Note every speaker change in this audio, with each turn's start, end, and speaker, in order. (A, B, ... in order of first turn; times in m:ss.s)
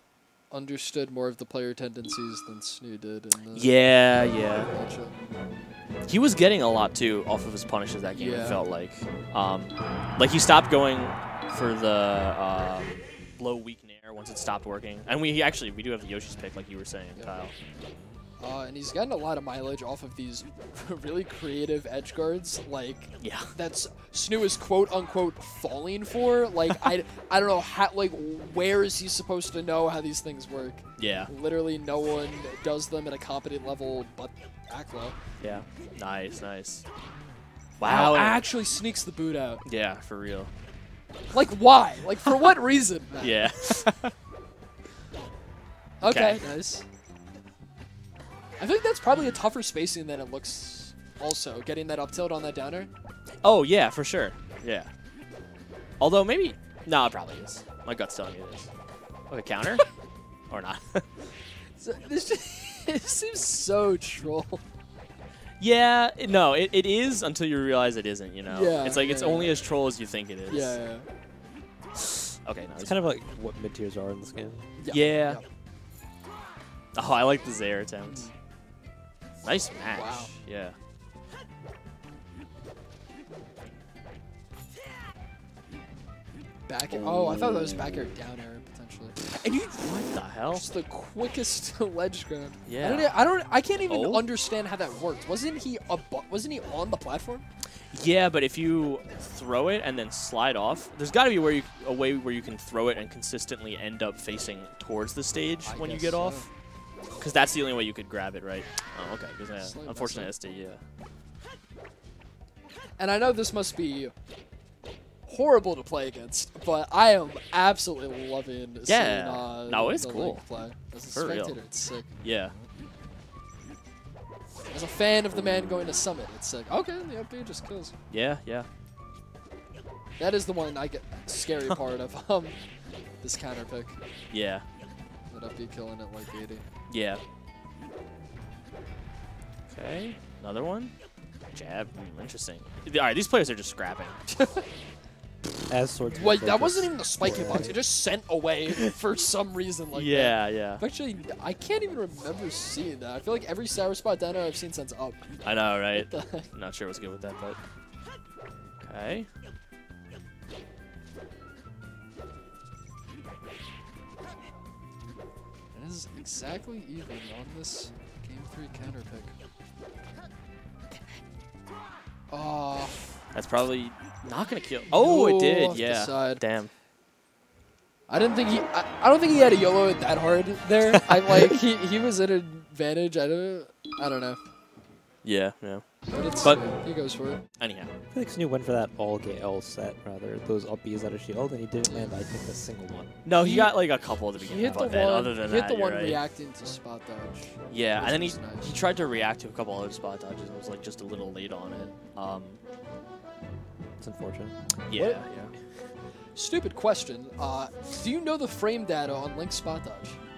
0:00.5-0:03.7 A
0:03.5-0:04.7 B
0:04.7-0:05.2 A
0:06.1-0:17.5 B
0:08.1-0:08.6 A
0:18.4-0:35.2 A
0:23.2-0:23.5 B
0:31.0-0:31.3 B
0:35.4-0:36.8 B
0:37.8-0:38.4 B
0:37.8-0:39.6 A
0:39.6-0:40.5 B
0:41.3-0:43.8 A
0:43.2-0:44.1 B
0:46.0-0:46.8 A
0:46.0-0:46.4 B
0:48.6-0:52.9 A
0:53.4-0:54.9 B
0:56.0-0:58.7 B
0:59.3-0:59.8 B
1:00.5-1:01.1 B
1:01.8-1:04.6 A
1:05.6-1:10.8 B
1:08.4-1:09.6 A
1:10.5-1:11.1 A
1:12.0-1:13.0 B
1:12.8-1:14.7 C
1:14.8-1:15.4 A
1:14.9-1:15.4 B
1:16.9-1:18.3 B
1:18.0-1:18.3 A
1:19.4-1:20.8 B
1:19.9-1:20.3 A
1:26.7-1:30.0 A
1:26.9-1:28.1 B
1:29.6-1:30.7 B
1:30.5-1:37.4 A
1:32.6-1:33.1 B
1:33.9-1:34.2 B
1:37.9-1:46.5 B
1:45.6-1:46.5 A
1:47.2-1:50.8 B
1:49.6-1:50.3 A
1:53.0-1:54.1 A
1:55.3-2:02.1 A
1:58.9-2:00.4 B
2:01.1-2:01.6 B
2:02.2-2:02.5 B
2:04.7-2:07.9 A
2:08.1-2:08.7 B
2:10.2-2:12.6 A
2:13.2-2:14.0 A
2:14.3-2:14.6 B
2:15.3-2:16.6 A
2:16.9-2:17.2 B
2:19.7-2:20.9 B
2:21.5-2:24.2 B
2:24.3-2:24.6 A
2:25.7-2:27.8 C
2:26.1-2:36.5 A
2:29.9-2:30.8 B
2:35.4-2:37.6 B
2:38.8-2:39.3 B
2:45.7-2:49.3 A
2:52.3-2:53.0 A
2:53.3-2:56.7 B
2:54.9-2:56.4 A
2:58.1-3:04.4 A
3:00.9-3:01.4 B
3:05.2-3:06.7 B
3:06.1-3:07.4 A
3:07.6-3:07.9 B
3:08.1-3:13.2 C
3:11.8-3:12.2 A
3:13.2-3:16.2 B
3:13.4-3:13.8 A
3:14.3-3:18.8 A
3:17.7-3:22.6 B
3:24.0-3:24.6 C
3:24.9-3:25.5 B
3:24.9-3:25.3 A
3:26.3-3:30.2 A